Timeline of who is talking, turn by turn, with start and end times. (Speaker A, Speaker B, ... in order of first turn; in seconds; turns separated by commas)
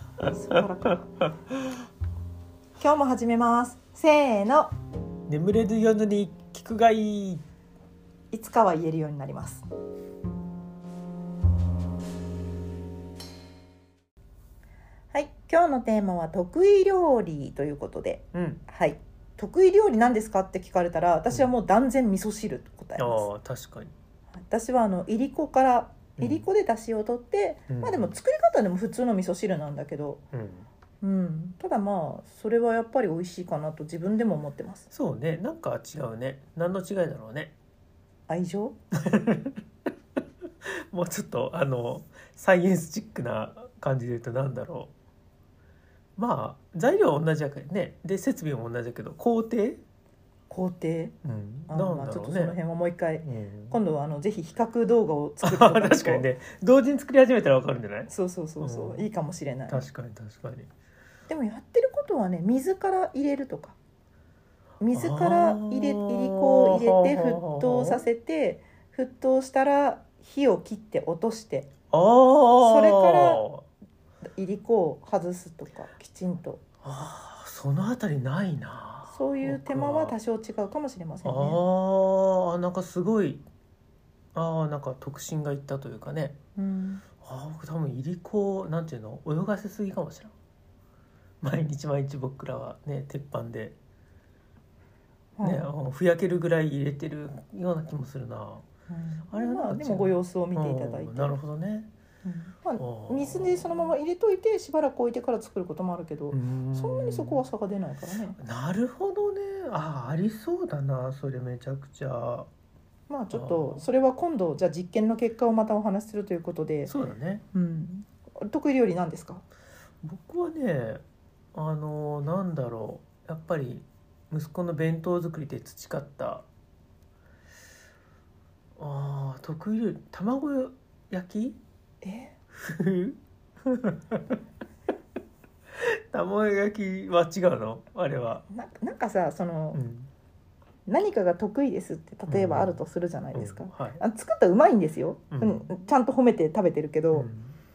Speaker A: 0.2-0.6, Speaker B: 0.2-1.1, Speaker B: 2.8-4.7, Speaker A: 5.3-7.4, Speaker B: 8.3-9.7, Speaker B: 15.1-23.3, Speaker A: 18.3-18.6, Speaker A: 23.0-23.9, Speaker B: 24.3-30.2, Speaker A: 26.2-26.4, Speaker A: 27.7-28.1, Speaker A: 30.3-30.7, Speaker B: 31.0-34.9, Speaker A: 34.9-37.5, Speaker B: 38.3-38.8, Speaker A: 39.0-39.6, Speaker A: 40.9-44.9, Speaker A: 46.2-49.8, Speaker B: 50.5-51.1, Speaker A: 51.2-52.6, Speaker B: 51.7-56.3, Speaker A: 53.2-53.8, Speaker A: 55.4-59.0, Speaker B: 58.1-59.8, Speaker A: 59.7-60.7, Speaker B: 61.3-63.8, Speaker B: 64.8-71.7, Speaker A: 64.9-68.0, Speaker A: 71.9-73.7, Speaker B: 72.6-73.4, Speaker B: 74.3-76.6, Speaker A: 76.8-80.1, Speaker B: 79.1-81.6, Speaker A: 81.2-83.4, Speaker A: 84.3-86.4, Speaker B: 86.5-87.0, Speaker A: 87.2-90.3, Speaker A: 91.4-93.8, Speaker B: 95.4-95.7, Speaker A: 95.4-98.6, Speaker B: 98.9-101.4, Speaker A: 99.3-101.9, Speaker B: 102.2-108.4, Speaker A: 102.8-103.9, Speaker A: 106.3-107.4, Speaker A: 108.4-112.5, Speaker B: 113.1-116.9, Speaker A: 113.3-113.8, Speaker A: 116.8-117.4, Speaker B: 117.5-119.4, Speaker A: 120.0-121.0, Speaker A: 121.5-126.4, Speaker A: 128.8-131.6, Speaker B: 132.0-132.3, Speaker A: 132.5-134.4, Speaker A: 135.8-138.4, Speaker B: 138.5-139.8, Speaker A: 139.7-140.1, Speaker B: 140.8-147.3, Speaker A: 142.3-142.8, Speaker A: 143.3-144.0, Speaker A: 145.3-145.7, Speaker A: 147.1-147.5